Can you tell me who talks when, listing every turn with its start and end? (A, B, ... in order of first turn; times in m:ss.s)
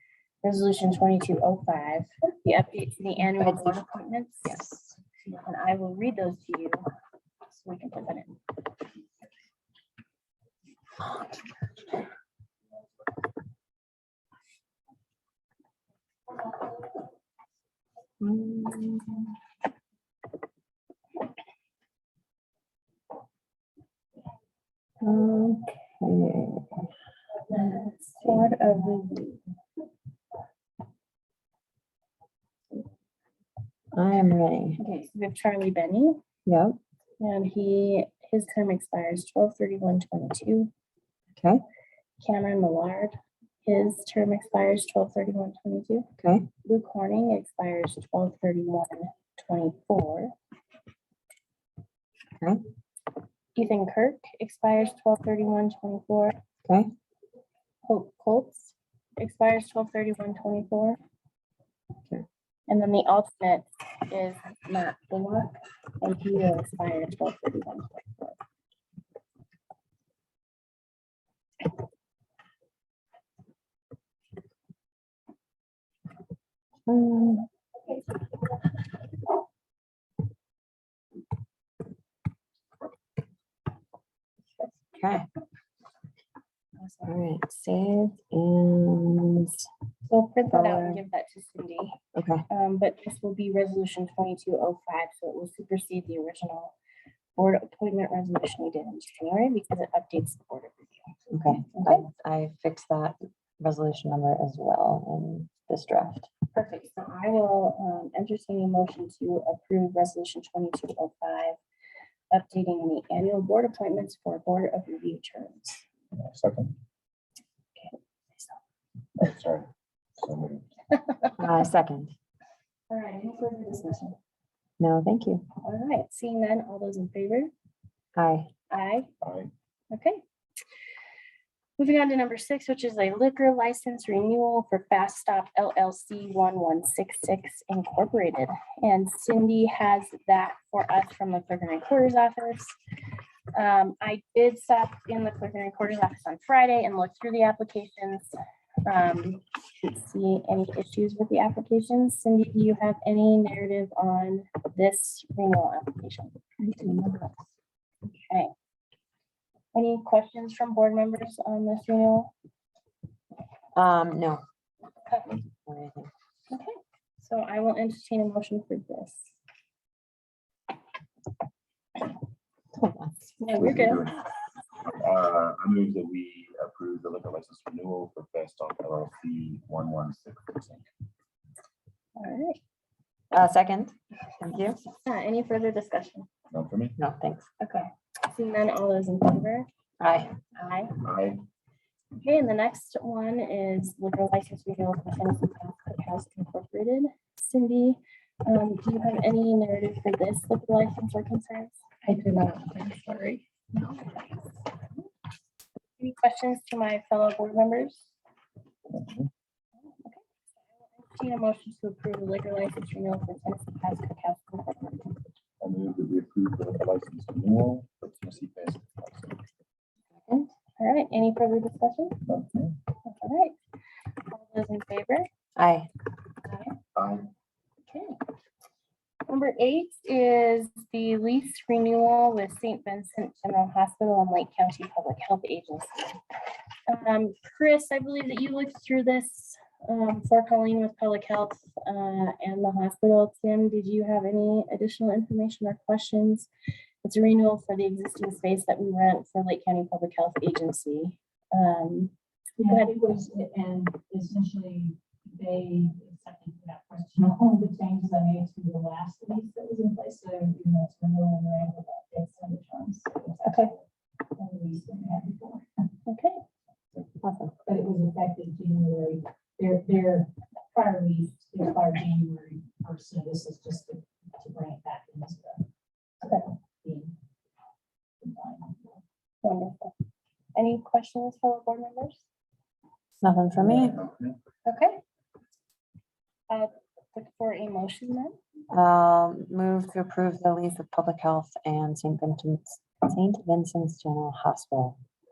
0:00.4-0:04.6 A
0:03.4-0:03.8 B
0:04.4-0:05.0 B
0:05.2-0:06.8 A
0:07.5-0:08.4 A
0:18.2-0:19.3 B
0:25.0-0:26.9 B
0:27.5-0:29.4 A
0:33.9-0:34.8 B
0:34.8-0:36.2 A
0:36.5-0:36.8 B
0:37.2-0:40.7 A
0:41.4-0:41.6 B
0:42.2-0:46.0 A
0:46.2-0:46.5 B
0:46.6-0:50.3 A
0:53.5-0:56.4 A
0:57.8-1:01.0 A
1:02.7-1:08.4 A
1:16.9-1:17.5 B
1:24.9-1:25.3 B
1:26.8-1:27.1 A
1:27.0-1:29.6 B
1:30.1-1:32.0 A
1:30.5-1:31.0 B
1:32.2-1:32.4 B
1:32.5-1:36.7 A
1:37.4-1:41.1 A
1:41.3-1:46.3 B
1:41.7-1:42.0 A
1:46.5-1:51.6 A
1:52.3-1:55.8 A
1:56.2-1:56.7 C
1:57.8-1:58.5 A
1:59.2-1:59.7 C
2:00.2-2:00.6 C
2:01.4-2:02.1 B
2:02.9-2:04.2 A
2:04.8-2:05.4 B
2:05.6-2:07.5 A
2:08.2-2:08.5 B
2:08.7-2:09.1 A
2:09.2-2:09.5 C
2:09.9-2:10.2 A
2:11.8-2:22.8 A
2:23.5-2:28.3 A
2:28.8-2:36.3 A
2:36.6-2:37.2 B
2:38.0-2:38.5 A
2:39.7-2:42.3 A
2:43.7-2:44.4 B
2:45.6-2:46.1 B
2:46.5-2:49.2 A
2:52.7-2:53.4 B
2:53.4-2:54.1 A
2:53.5-2:54.2 C
2:54.8-3:00.8 C
3:02.2-3:02.6 A
3:03.3-3:04.8 B
3:05.0-3:06.3 A
3:06.5-3:06.9 C
3:07.0-3:07.4 B
3:07.6-3:09.7 A
3:10.0-3:10.4 B
3:10.5-3:10.9 A
3:11.0-3:11.4 C
3:12.2-3:23.2 A
3:22.2-3:22.4 D
3:23.7-3:25.0 A
3:26.0-3:28.1 A
3:28.9-3:29.3 C
3:29.8-3:30.2 A
3:30.9-3:35.1 A
3:35.6-3:39.4 C
3:40.2-3:40.5 B
3:40.8-3:42.2 A
3:42.2-3:42.8 C
3:43.0-3:43.6 A
3:44.3-3:45.3 A
3:45.6-3:45.9 B
3:46.4-3:46.7 A
3:47.0-3:47.3 C
3:47.9-3:48.2 A
3:49.3-3:56.2 A
3:56.9-4:06.5 A
4:07.0-4:12.1 A
4:12.6-4:25.7 D
4:12.6-4:13.0 A
4:23.4-4:23.7 A
4:26.0-4:26.4 A
4:27.2-4:27.5 B
4:27.6-4:35.6 D
4:36.2-4:36.5 A
4:36.3-4:37.1 D
4:38.2-4:39.0 D
4:39.4-4:39.9 A
4:40.5-4:42.2 A
4:43.2-4:44.0 B
4:43.6-4:44.3 C
4:44.6-4:45.0 A
4:46.5-4:48.3 A
4:48.7-4:55.0 B